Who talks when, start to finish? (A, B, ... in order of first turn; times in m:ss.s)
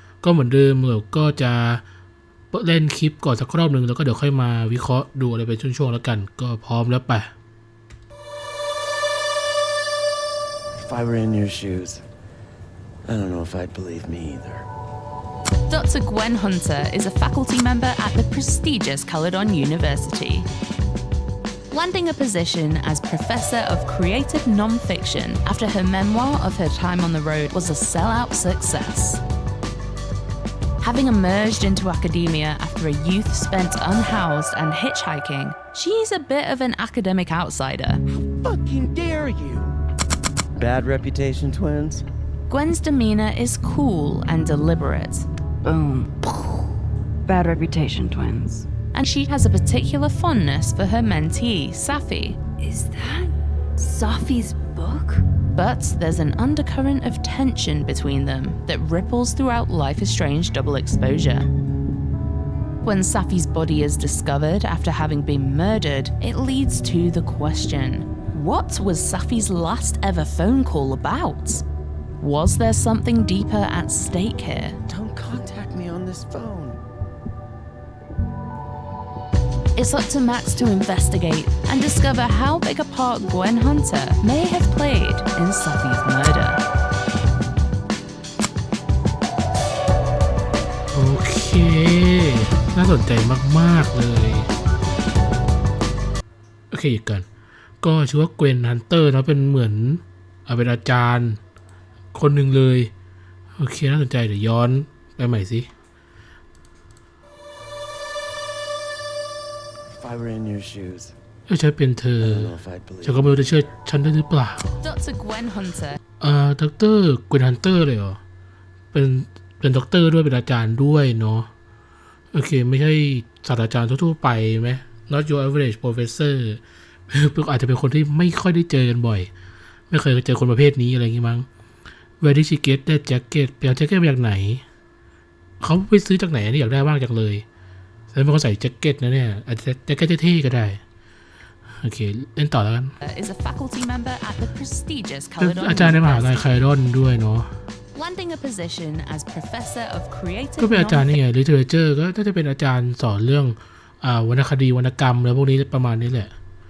0:00.2-0:01.8 A
0:02.5-0:07.3 A
0:10.8-0:12.0 B
0:13.0-0:14.7 B
0:15.7-0:20.5 C
0:21.7-0:29.2 C
0:30.8-0:38.0 C
0:38.3-0:39.8 B
0:40.6-0:42.0 B
0:42.5-0:45.3 C
0:45.6-0:46.7 D
0:47.3-0:48.7 D
0:48.9-0:52.4 C
0:52.6-0:55.3 D
0:55.6-1:01.5 C
1:02.8-1:11.6 C
1:12.2-1:14.8 C
1:14.9-1:16.8 B
1:19.8-1:26.6 C
1:30.9-1:34.5 A
1:36.7-1:37.2 A
1:37.8-1:41.4 A
1:42.1-1:42.9 A
1:43.6-1:45.7 A
1:49.9-1:51.1 B
1:51.5-1:54.8 A
1:52.2-1:53.4 B
1:54.8-1:56.0 C
1:56.2-1:58.2 A
1:58.9-2:01.5 A
2:02.3-2:09.3 A
2:09.9-2:11.5 A
2:12.2-2:14.6 A
2:15.6-2:17.4 A
2:18.1-2:20.8 A
2:21.8-2:22.9 A
2:23.0-2:26.7 C
2:25.4-2:27.5 A
2:28.0-2:31.1 C
2:30.6-2:36.3 A